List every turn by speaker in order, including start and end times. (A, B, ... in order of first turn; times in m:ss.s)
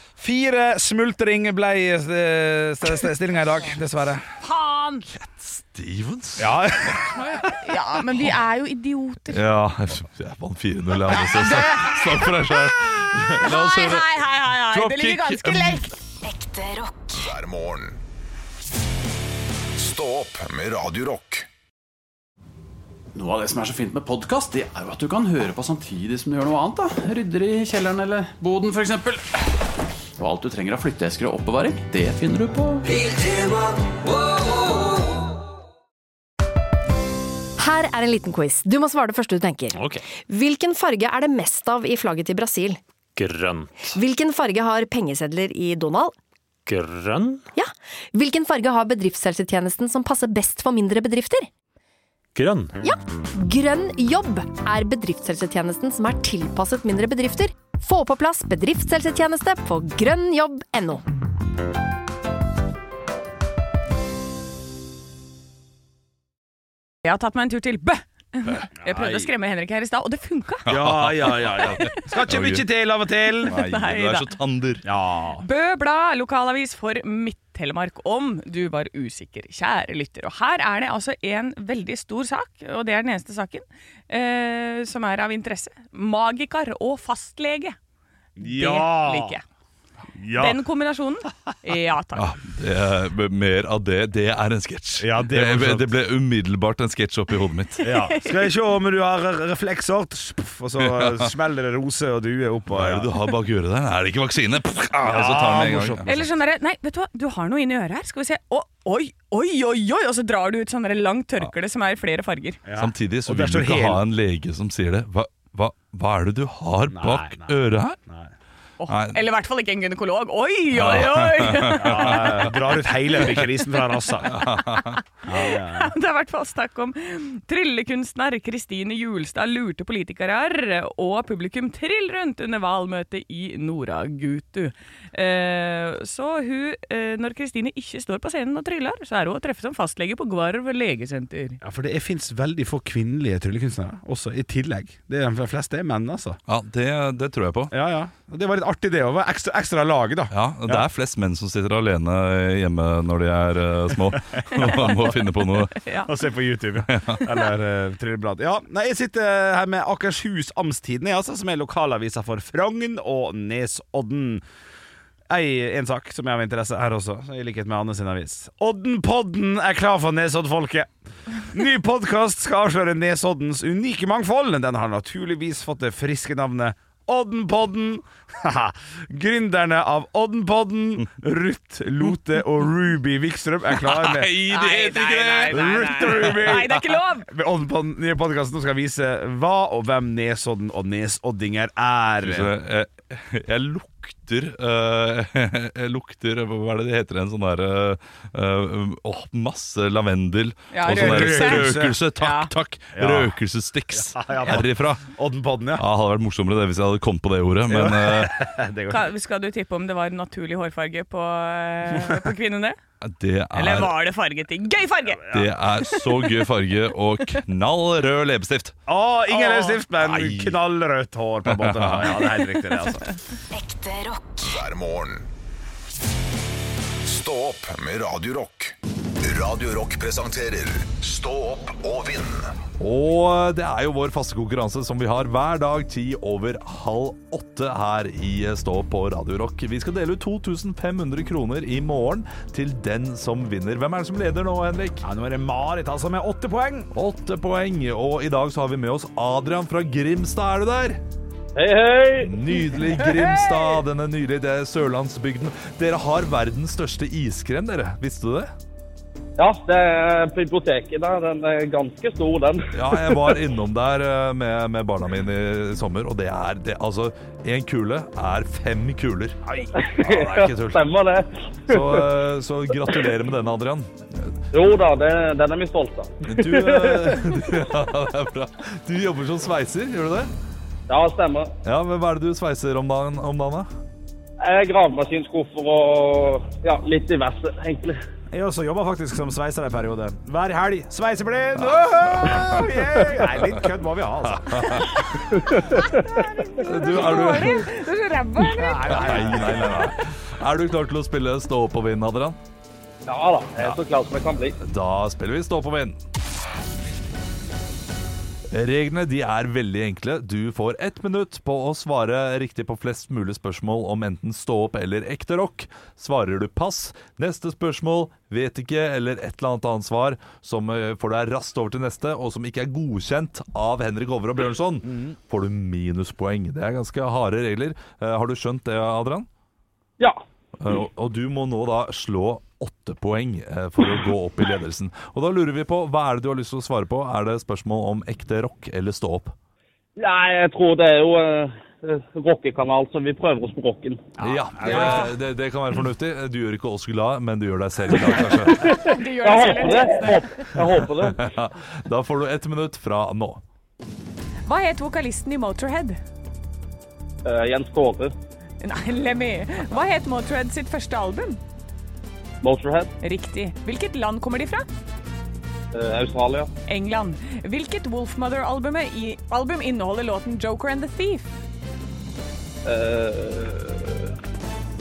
0:00.2-0:04.2 A
0:04.4-0:05.1 B
0:05.1-0:07.6 C
0:06.4-0:07.2 A
0:07.6-0:09.4 B
0:09.3-0:15.9 C
0:11.1-0:12.8 B
0:13.4-0:15.9 B
0:16.2-0:18.0 D
0:19.8-0:21.5 D
0:23.1-0:29.3 E
0:30.2-0:33.1 E
0:37.6-0:42.8 F
0:39.7-0:40.0 G
0:43.2-0:43.9 G
0:43.9-0:46.2 F
0:46.7-0:47.5 G
0:47.6-0:51.5 F
0:52.4-0:52.8 G
0:52.8-1:01.0 F
1:07.0-1:10.7 B
1:08.8-1:09.3 A
1:10.7-1:12.7 C
1:10.7-1:13.6 A
1:13.4-1:14.3 B
1:13.5-1:14.8 C
1:14.8-1:15.4 A
1:15.4-1:27.8 B
1:28.4-1:29.4 A
1:28.4-1:29.4 B
1:30.2-1:30.6 A
1:30.4-1:32.3 B
1:32.2-1:37.9 C
1:35.0-1:35.9 A
1:37.8-1:38.3 B
1:37.8-1:43.1 A
1:40.8-1:41.3 C
1:42.7-1:46.1 C
1:45.0-1:46.3 A
1:46.1-1:52.6 B
1:52.6-1:54.0 A
1:52.8-1:58.0 C
1:56.9-1:58.3 A
1:58.8-2:02.5 B
1:58.9-1:59.2 C
2:00.7-2:02.5 C
2:01.7-2:04.4 A
2:04.3-2:05.0 C
2:04.3-2:21.6 B
2:05.2-2:05.9 A
2:21.6-2:26.4 A
2:26.5-2:27.7 C
2:27.7-2:30.8 A
2:30.3-2:35.8 C
2:34.4-2:35.1 A
2:35.8-2:36.1 B
2:36.0-2:44.4 A
2:36.9-2:37.2 C
2:45.3-2:50.9 A
2:51.4-3:04.4 A
3:03.8-3:06.6 C
3:04.5-3:07.3 B
3:05.5-3:12.5 A
3:12.2-3:25.1 C
3:20.7-3:22.5 B
3:20.9-3:22.0 A
3:23.0-3:23.4 A
3:23.9-3:25.8 A
3:25.8-3:28.4 C
3:27.7-3:29.1 A
3:28.9-3:32.8 B
3:32.0-3:32.2 A
3:33.0-3:34.0 C
3:33.5-3:35.3 B
3:35.2-3:35.5 A
3:35.3-3:38.8 C
3:35.8-3:36.3 B
3:38.9-3:43.1 A
3:39.3-3:39.8 B
3:40.0-3:40.6 C
3:41.5-3:42.2 C
3:43.5-3:45.3 D
3:47.0-3:52.5 D
3:52.8-4:05.0 C
4:05.0-4:06.9 A
4:06.9-4:11.0 C
4:11.6-4:12.3 H
4:12.2-4:18.5 C
4:19.4-4:23.2 H
4:22.7-4:30.8 C
4:29.8-4:32.0 H
4:31.7-4:34.3 C
4:34.5-4:37.2 H
4:36.3-4:40.3 C
4:40.9-4:41.5 H
4:41.6-4:43.7 C
4:44.4-4:48.0 H
4:48.3-4:54.9 A
4:52.2-4:52.5 C
4:54.3-4:54.9 C
4:55.3-4:56.1 H
4:55.7-4:59.4 B
4:56.6-4:57.7 C
4:58.5-5:00.0 A
4:58.9-5:02.4 C
5:03.1-5:04.6 H
5:04.6-5:06.0 C
5:08.5-5:29.3 C
5:30.6-5:39.3 C
5:40.0-5:44.1 H
5:44.2-5:45.1 A
5:44.2-5:48.7 C
5:44.6-5:45.1 B
5:48.5-5:51.2 H
5:48.6-5:50.6 B
5:51.1-5:53.4 C
5:54.5-5:56.0 B
5:57.2-5:58.1 H
5:58.6-6:01.4 B
6:02.4-6:02.9 H
6:03.0-6:04.7 B
6:05.7-6:06.5 H
6:06.7-6:11.3 B
6:12.7-6:14.1 H